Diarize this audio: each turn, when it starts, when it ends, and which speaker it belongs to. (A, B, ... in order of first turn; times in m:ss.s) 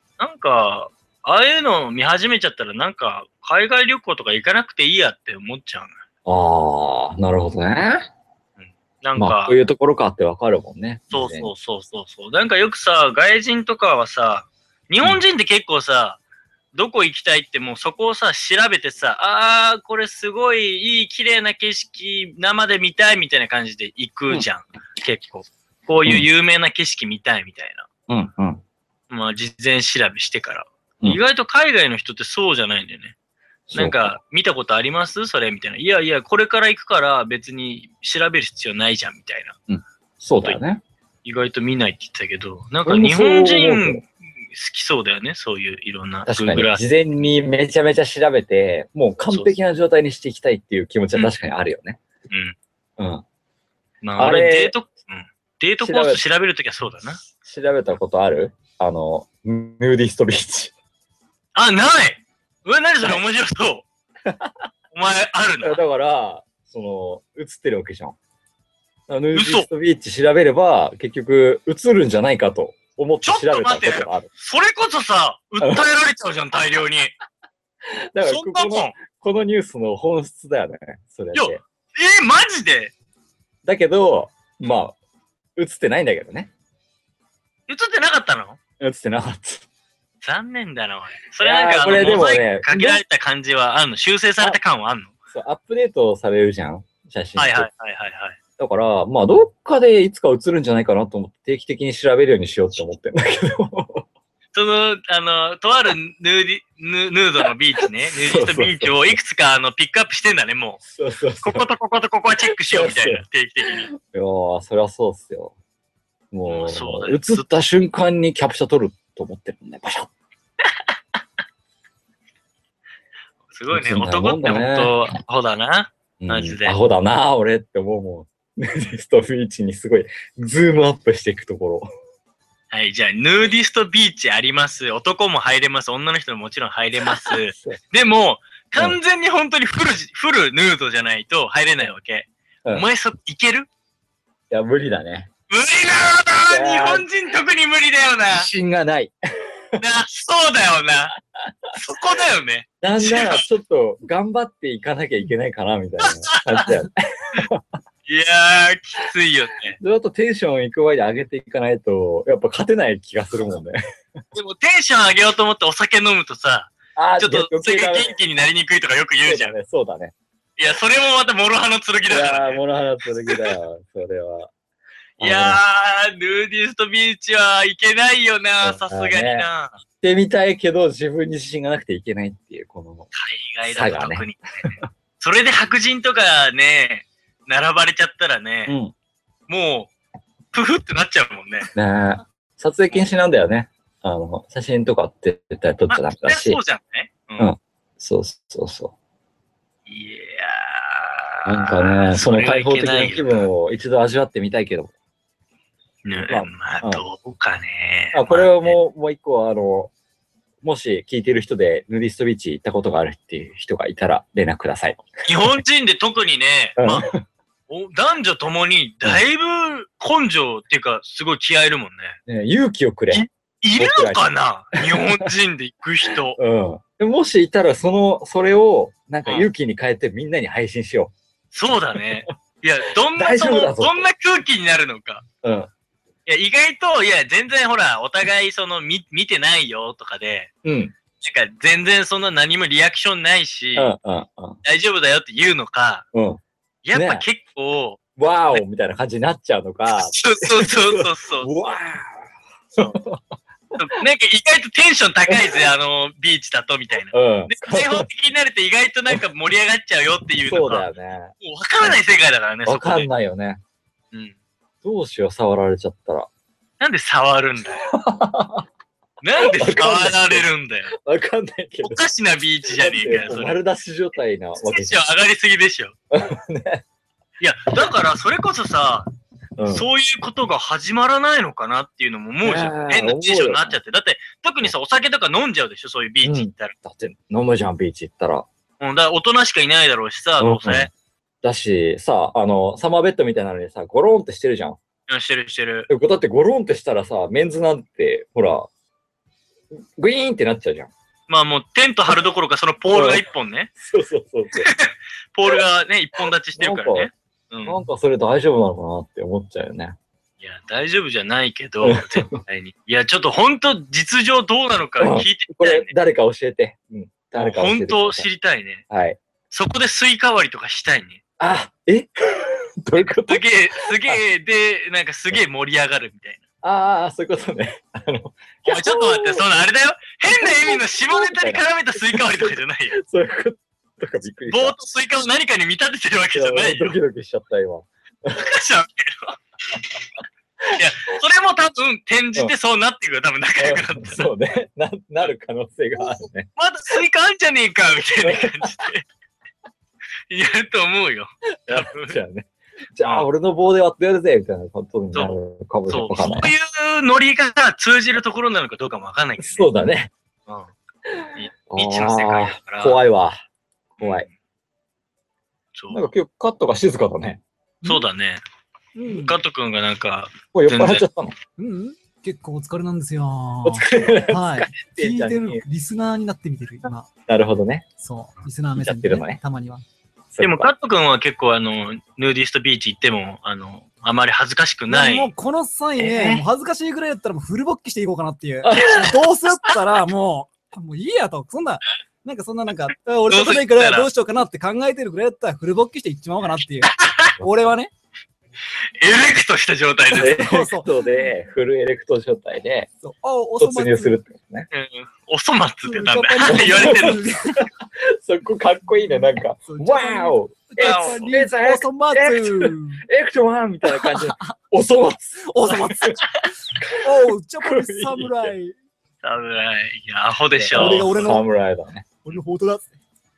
0:00.2-0:06.0 A
0:06.3-0:08.1 B
0:08.6-0:09.6 A
0:09.2-0:11.5 B
0:11.1-0:16.2 A
0:16.7-0:27.9 A
0:28.1-0:28.6 B
0:29.1-0:33.1 A
0:33.7-0:34.2 B
0:33.7-0:39.6 A
0:39.7-0:40.8 B
0:41.2-0:46.8 A
0:42.8-0:44.0 B
0:46.3-0:52.0 B
0:52.3-0:52.6 A
0:53.0-0:53.2 B
0:54.0-0:57.2 A
0:54.2-0:54.7 B
0:55.8-0:56.2 B
0:57.4-1:00.7 B
1:01.6-1:03.8 A
1:04.2-1:04.7 B
1:04.9-1:05.8 A
1:05.6-1:08.2 B
1:09.1-1:14.3 B
1:09.3-1:09.7 A
1:13.2-1:17.1 A
1:17.9-1:21.6 B
1:18.2-1:19.0 A
1:21.4-1:22.9 A
1:23.6-1:25.0 B
1:25.6-1:26.5 B
1:27.7-1:28.6 A
1:28.8-1:29.6 B
1:30.2-1:35.1 A
1:31.4-1:33.0 B
1:35.3-1:37.7 B
1:37.4-1:38.4 A
1:38.6-1:44.0 B
1:44.5-1:50.8 A
1:48.2-1:49.2 B
1:50.8-1:51.7 B
1:51.4-1:53.9 A
1:52.7-1:55.5 B
1:56.3-2:00.1 B
1:56.5-1:57.4 A
2:03.5-2:06.8 A
2:03.7-2:05.0 B
2:06.2-2:11.9 B
2:12.7-2:23.7 A
2:17.0-2:17.8 B
2:24.5-2:25.3 B
2:25.5-2:28.5 A
2:26.5-2:27.1 B
2:28.3-2:29.8 B
2:29.8-2:31.2 A
2:31.4-2:31.7 B
2:31.7-2:33.4 A
2:32.8-2:37.8 B
2:36.0-2:36.8 A
2:38.1-2:39.8 A
2:39.8-2:44.2 B
2:44.3-2:49.5 A
2:47.0-2:48.1 B
2:49.2-2:50.1 B
2:50.6-2:52.6 A
2:52.1-2:54.5 B
2:53.3-2:53.6 A
2:55.2-2:55.6 B
2:55.2-2:59.8 A
2:58.6-2:59.5 B
3:00.0-3:03.1 B
3:03.1-3:08.8 A
3:03.7-3:04.8 B
3:08.7-3:08.9 B
3:09.5-3:09.9 A
3:10.5-3:11.7 A
3:11.8-3:16.6 B
3:15.9-3:17.5 A
3:17.4-3:18.9 B
3:19.9-3:23.5 A
3:21.5-3:24.9 B
3:26.0-3:28.8 A
3:26.3-3:27.0 B
3:28.1-3:29.9 B
3:30.6-3:35.6 B
3:35.2-3:37.1 A
3:36.8-3:37.2 B
3:37.7-3:42.2 A
3:42.3-3:43.2 B
3:43.1-3:46.4 A
3:43.8-3:44.2 B
3:44.8-3:45.3 B
3:46.4-3:51.1 B
3:51.5-3:55.2 A
3:52.0-3:52.2 B
3:53.1-3:54.1 B
3:55.4-3:55.7 B
3:56.3-4:00.5 A
4:00.6-4:00.9 B
4:01.2-4:03.9 A
4:03.8-4:04.6 B
4:04.6-4:06.1 A
4:06.1-4:06.4 B
4:06.8-4:08.0 A
4:06.9-4:07.2 B
4:08.2-4:13.4 B
4:09.9-4:11.6 A
4:13.8-4:20.9 A
4:15.3-4:15.7 B
4:17.1-4:18.1 B
4:20.4-4:22.0 B
4:21.4-4:23.1 A
4:22.7-4:23.6 B
4:24.8-4:26.3 B
4:26.8-4:27.9 A
4:27.8-4:28.7 B
4:29.2-4:30.9 A
4:29.4-4:32.0 B
4:31.8-4:33.6 A
4:32.7-4:35.0 B
4:34.6-4:35.9 A
4:36.1-4:36.8 B
4:37.4-4:39.1 A
4:39.6-4:39.9 B
4:39.7-4:46.8 A
4:42.4-4:43.8 B
4:46.2-4:48.5 B
4:48.8-4:50.9 A
4:50.4-4:50.9 B
4:51.4-4:54.8 B
4:55.1-4:55.9 A
4:55.9-4:58.7 B
4:59.8-5:00.9 B
5:01.3-5:03.7 A
5:02.9-5:03.2 B
5:03.8-5:04.7 B
5:04.6-5:07.8 A
5:06.6-5:07.1 B
5:07.6-5:10.0 B
5:10.4-5:15.9 A
5:11.8-5:12.4 B
5:15.0-5:18.3 B
5:17.4-5:18.8 A
5:18.9-5:19.2 B
5:19.5-5:21.2 A
5:21.4-5:24.2 B
5:23.2-5:26.4 A
5:26.6-5:29.6 B
5:28.6-5:33.0 A
5:30.3-5:34.8 B
5:34.5-5:37.0 A
5:36.3-5:38.4 B
5:38.3-5:39.4 A
5:40.6-5:41.1 B
5:40.7-5:44.3 A
5:43.6-5:46.5 B
5:46.0-5:49.0 A
5:48.2-5:48.9 B
5:50.3-5:52.2 A
5:51.7-5:56.5 B
5:55.9-5:59.7 A
5:59.4-6:00.1 B
6:01.1-6:03.4 B
6:01.4-6:03.0 A
6:04.0-6:04.3 B
6:04.0-6:04.3 A
6:05.8-6:06.1 A
6:05.9-6:07.4 B
6:07.8-6:08.4 A
6:09.0-6:09.4 C
6:09.1-6:11.0 A
6:10.5-6:11.4 B
6:11.6-6:17.1 C
6:13.6-6:15.6 B
6:17.3-6:17.8 B
6:18.0-6:19.8 C
6:18.8-6:19.4 B
6:20.3-6:20.7 B
6:20.4-6:25.3 A
6:24.9-6:37.9 C
6:26.0-6:26.4 B
6:28.6-6:29.2 B
6:33.3-6:34.1 A
6:37.0-6:37.3 A
6:39.0-6:40.4 A
6:40.1-6:41.1 C
6:40.2-6:42.9 B
6:43.0-6:44.2 C
6:43.6-6:44.7 B
6:44.7-6:47.3 A
6:45.8-6:47.7 C
6:46.5-6:56.2 B
6:49.0-6:53.0 C
6:50.8-6:51.3 A
6:53.8-6:54.6 C
6:55.4-6:56.2 C
6:56.8-6:58.5 B
6:56.9-6:58.8 C
6:59.2-7:01.4 A
7:00.6-7:02.1 B
7:00.7-7:01.4 C
7:02.2-7:03.0 C